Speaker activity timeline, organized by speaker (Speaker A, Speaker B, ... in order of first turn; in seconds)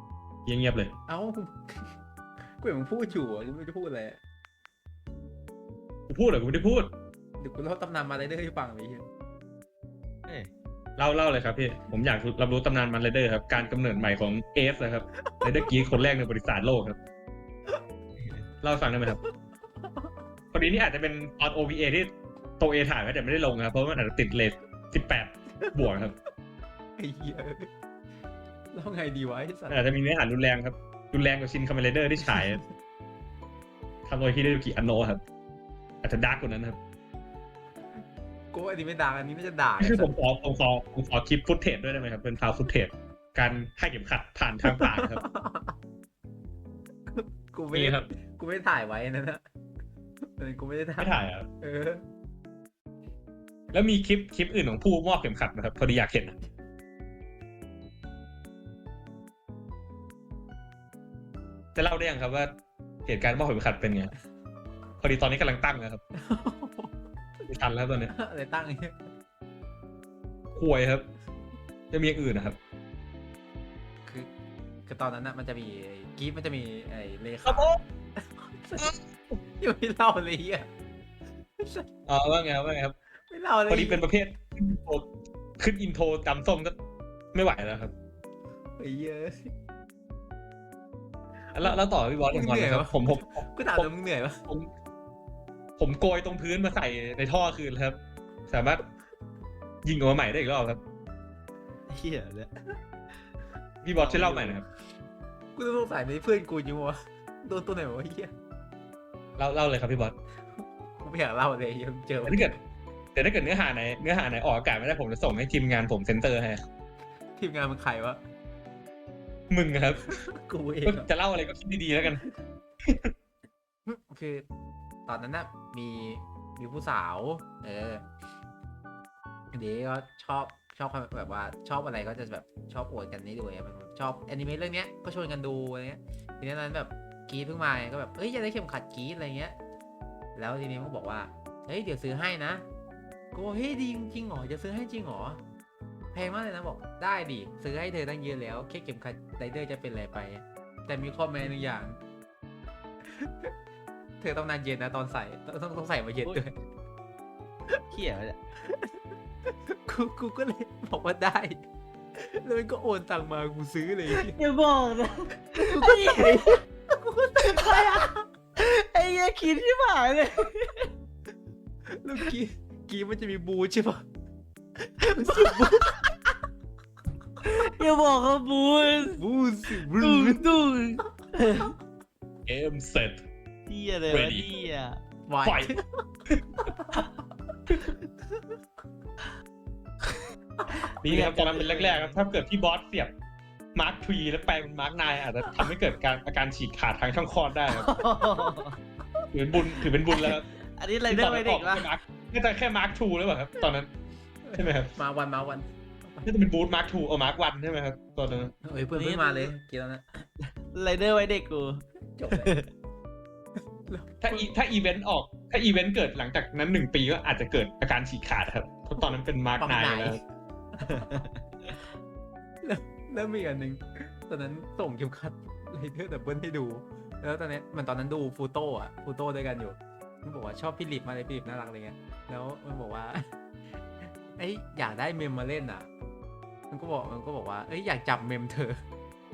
Speaker A: 0.5-0.9, 6.1-6.9, 11.0-17.0, 18.6-19.2, 20.5-26.2, 29.7-32.6, 34.1-35.2, 36.0-36.8, 39.8-45.2, 47.7-48.1, 51.0-51.5, 53.7-56.4, 61.8-62.5, 63.1-64.1, 65.0-66.0, 67.5-68.1, 70.5-71.1, 71.9-72.6, 77.4-77.8, 82.1-83.0, 83.7-85.1, 85.6-86.8, 87.3-87.9, 91.5-93.9, 95.8-98.9, 99.8-100.8, 103.8-104.7, 109.4-110.2, 112.2-112.5, 113.2-116.6, 119.5-120.2, 120.8-122.2, 122.8-123.1, 182.5-183.3, 184.1-184.5, 185.4-185.8, 186.3-186.7, 191.0-193.1, 193.8-197.9, 199.3-200.5, 201.1-203.9, 204.5-204.9, 206.2-208.5, 214.2-220.2
Speaker B: 1.1-1.9, 2.6-4.2, 7.4-9.1, 25.6-25.9, 27.0-27.7, 28.7-29.8, 32.2-32.7, 38.5-40.1, 44.7-45.7, 47.1-49.4, 50.4-52.0, 66.2-66.9, 68.1-69.1, 74.9-78.9, 79.6-80.7, 81.6-81.9, 83.3-84.0, 88.8-89.5, 91.6-94.4, 104.0-104.6, 105.5-108.3, 111.0-112.6, 117.4-118.2, 120.1-121.1, 123.9-124.5, 125.1-128.1, 129.5-139.6, 140.3-142.7, 143.3-145.4, 146.1-152.0, 153.1-153.5, 154.2-156.6, 158.6-159.0, 159.7-161.6, 162.2-164.4, 165.6-168.3, 171.9-174.1, 174.8-176.0, 179.1-180.5, 185.3-186.0, 186.6-187.1, 187.8-188.2, 204.4-206.3, 208.6-210.3, 212.2-212.5, 213.9-214.5, 219.6-220.2, 220.8-221.1, 222.6-233.3, 234.0-235.9, 236.7-238.8
Speaker C: 18.2-18.4, 101.9-102.5, 157.9-158.4, 164.1-166.6, 167.6-170.9, 175.1-176.0, 177.4-179.2, 179.8-181.7, 183.7-185.0, 190.8-192.2, 197.7-198.8, 200.1-201.9, 208.9-209.5, 210.7-212.7, 220.9-221.8